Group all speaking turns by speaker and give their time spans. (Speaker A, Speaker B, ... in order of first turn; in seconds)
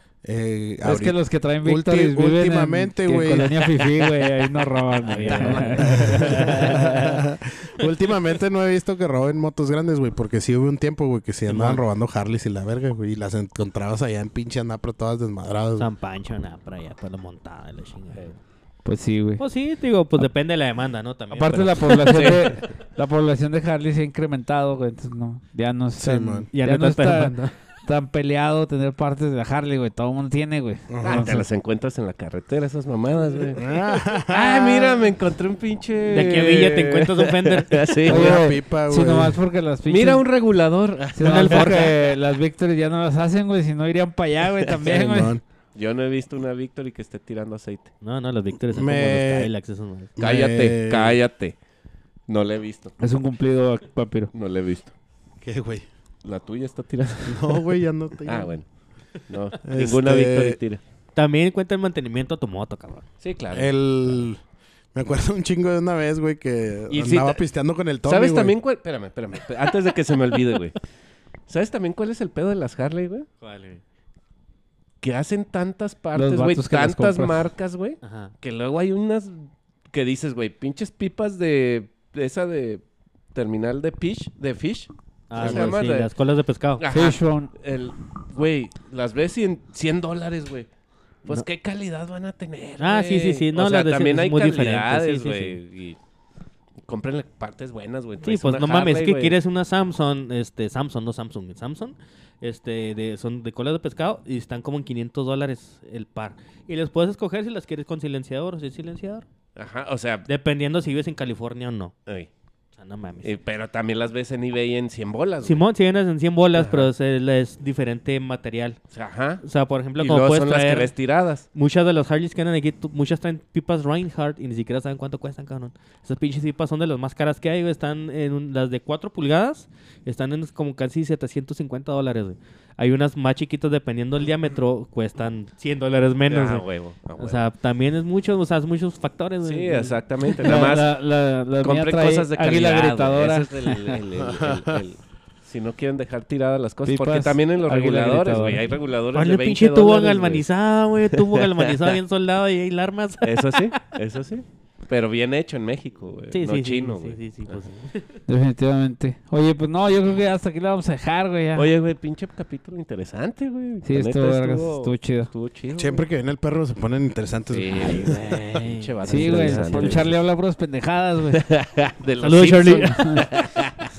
Speaker A: 0.2-3.7, 5.8-15.9, 26.0-26.5, 30.9-31.5, 33.5-35.1, 38.0-39.4, 44.8-45.4, 48.7-49.5, 50.2-51.2, 55.4-55.9, 57.2-58.5, 59.6-60.6, 63.5-64.4, 64.9-68.6, 85.4-85.7, 144.2-144.8, 165.8-168.6
Speaker B: 0.8-6.5, 18.9-19.4, 21.3-31.4, 38.1-40.2, 41.1-45.4, 53.0-54.3, 76.1-77.4, 86.9-87.5, 140.4-144.0, 146.8-148.7, 158.3-161.7, 163.8-165.3, 169.0-171.4, 172.8-173.3
Speaker C: 5.0-7.2, 11.5-11.8, 15.8-18.4, 19.4-22.4, 26.5-27.5, 36.1-37.9, 41.2-41.9, 48.0-50.1, 61.1-63.1, 73.4-73.8, 78.0-78.3, 85.3-86.8, 92.8-95.6, 98.2-109.3, 110.3-111.9, 112.8-113.3, 115.4-118.8, 119.4-120.9, 121.5-136.7, 137.2-140.6, 149.1-153.7, 156.3-158.1, 167.9-170.0, 172.2-173.0
Speaker D: 5.0-6.8, 22.0-22.7, 31.0-33.8, 34.3-38.4, 39.9-41.9, 45.7-47.9, 50.2-51.6, 52.3-53.0, 54.3-54.9, 56.2-57.7, 58.2-58.7, 59.3-60.8, 63.2-64.2, 66.9-67.4, 68.0-70.8, 71.5-73.3, 75.0-82.8, 83.3-86.1, 86.8-90.7, 91.2-96.0, 96.9-99.4, 109.6-110.3, 113.2-115.6, 116.5-116.9, 118.9-119.4, 120.0-121.5, 136.3-137.5, 139.4-140.9, 141.6-150.4, 151.0-152.0, 153.2-157.6, 161.6-166.1, 167.5-170.2, 171.3-173.8